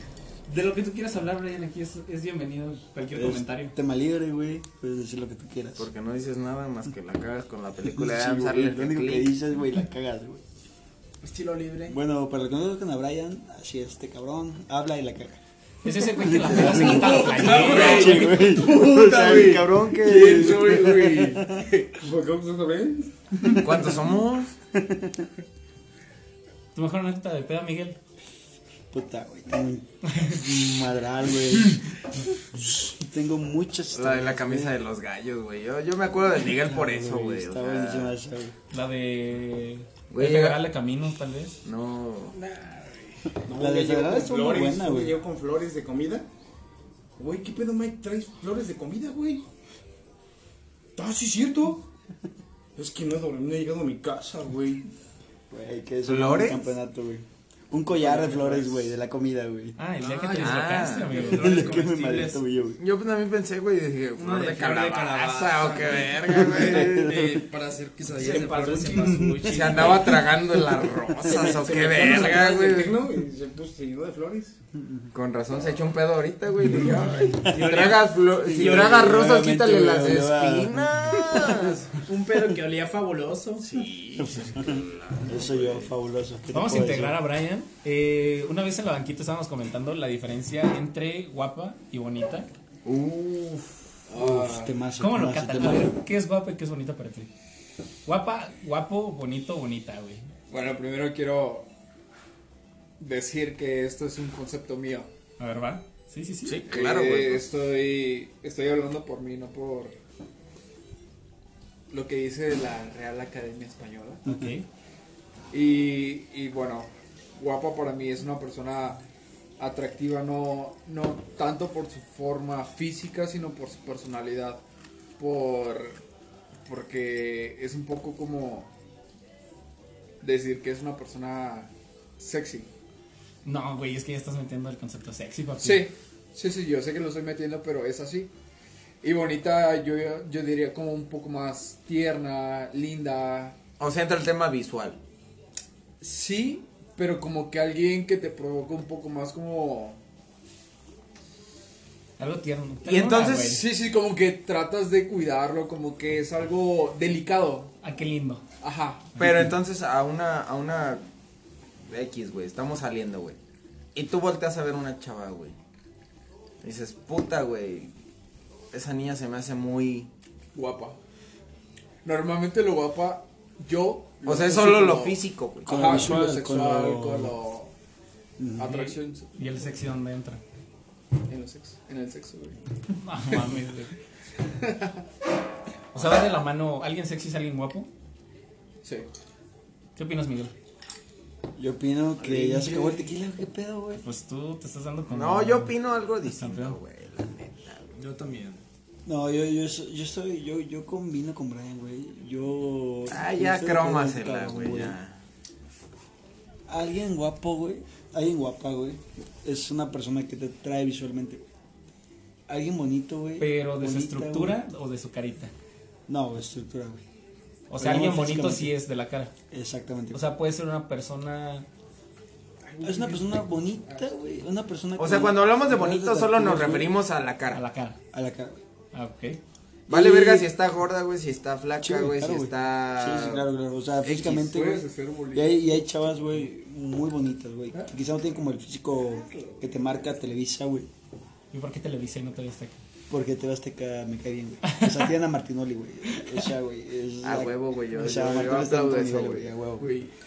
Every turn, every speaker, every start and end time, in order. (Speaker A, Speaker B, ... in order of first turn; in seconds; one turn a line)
Speaker A: 0.5-3.8
Speaker B: 3.1-5.9
Speaker C: 5.8-9.3
Speaker B: 7.9-10.4
Speaker D: 11.2-12.0
Speaker B: 11.9-15.4
Speaker A: 15.8-18.4
Speaker B: 15.9-21.6
Speaker E: 16.6-21.9
Speaker F: 22.0-23.1
Speaker C: 23.5-24.5
Speaker B: 24.7-25.3
Speaker A: 26.7-28.0
Speaker B: 28.9-34.8
Speaker C: 33.9-38.1
Speaker B: 36.4-38.5
Speaker A: 38.7-41.6
Speaker C: 40.1-40.7
Speaker C: 41.6-42.4
Speaker E: 42.3-43.1
Speaker F: 43.5-46.3
Speaker B: 43.5-45.2
Speaker F: 47.2-49.4
Speaker F: 51.0-51.9
Speaker F: 52.8-54.9
Speaker B: 55.5-59.8
Speaker C: 56.0-56.7
Speaker F: 58.0-58.8
Speaker A: 59.8-61.6
Speaker D: 60.0-62.4
Speaker C: 60.4-61.3
Speaker B: 61.3-62.8
Speaker C: 62.8-67.2
Speaker D: 64.2-70.2
Speaker B: 66.6-67.4
Speaker F: 68.1-69.3
Speaker B: 69.0-69.5
Speaker C: 69.5-73.0
Speaker B: 70.1-71.5
Speaker F: 71.2-74.6
Speaker B: 74.8-75.1
Speaker C: 75.1-81.8
Speaker B: 77.4-77.8
Speaker D: 77.5-79.0
Speaker B: 78.4-81.6
Speaker D: 81.9-83.7
Speaker C: 83.6-85.9
Speaker B: 84.2-87.2
Speaker A: 86.5-92.5
Speaker C: 92.8-93.8
Speaker E: 94.1-94.7
Speaker B: 94.2-96.0
Speaker A: 95.0-97.3
Speaker A: 98.0-100.3
Speaker E: 100.5-101.7
Speaker E: 103.0-105.1
Speaker A: 105.4-106.6
Speaker C: 106.4-107.4
Speaker E: 106.7-110.0
Speaker E: 111.9-114.3
Speaker A: 114.2-114.7
Speaker E: 115.5-119.0
Speaker E: 119.6-124.6
Speaker E: 125.2-126.0
Speaker E: 126.7-128.7
Speaker E: 130.2-132.7
Speaker A: 133.4-135.9
Speaker E: 135.6-138.3
Speaker E: 139.0-143.6
Speaker C: 143.8-145.0
Speaker E: 146.0-150.0
Speaker A: 152.2-153.6
Speaker C: 152.8-153.6
Speaker E: 153.3-157.7
Speaker A: 157.8-158.4
Speaker E: 158.6-159.1
Speaker C: 159.2-161.0
Speaker C: 161.9-163.4
Speaker C: 163.9-165.6
Speaker C: 166.6-167.9
Speaker C: 168.7-170.1
Speaker E: 170.5-171.0
Speaker E: 172.0-177.7
Speaker C: 174.2-176.0
Speaker B: 175.6-177.3
Speaker B: 178.4-178.8
Speaker E: 178.6-179.3
Speaker A: 178.6-180.4
Speaker E: 181.3-182.6
Speaker A: 183.0-183.9
Speaker E: 184.6-184.9
Speaker A: 185.9-187.9
Speaker E: 188.8-189.1
Speaker A: 189.9-190.5
Speaker B: 191.6-194.0
Speaker E: 192.2-193.0
Speaker A: 194.0-196.8
Speaker C: 195.1-197.9
Speaker D: 197.9-198.6
Speaker B: 199.1-204.9
Speaker C: 203.1-205.2
Speaker B: 206.7-211.4
Speaker B: 212.5-214.6
Speaker A: 213.4-215.5
Speaker B: 216.1-217.0
Speaker A: 217.7-219.3
Speaker B: 217.8-218.8
Speaker B: 219.5-220.2
Speaker A: 220.1-221.7
Speaker E: 222.6-224.1
Speaker B: 222.8-227.0
Speaker C: 225.0-227.6
Speaker A: 227.5-228.0
Speaker B: 228.1-228.6
Speaker A: 228.9-229.4
Speaker C: 229.9-233.4
Speaker B: 229.9-230.5
Speaker B: 231.8-240.9
Speaker E: 234.0-235.8
Speaker E: 239.3-239.9
Speaker A: 241.5-242.8
Speaker B: 243.1-249.9
Speaker A: 244.7-245.0
Speaker C: 247.2-249.5
Speaker E: 249.8-250.1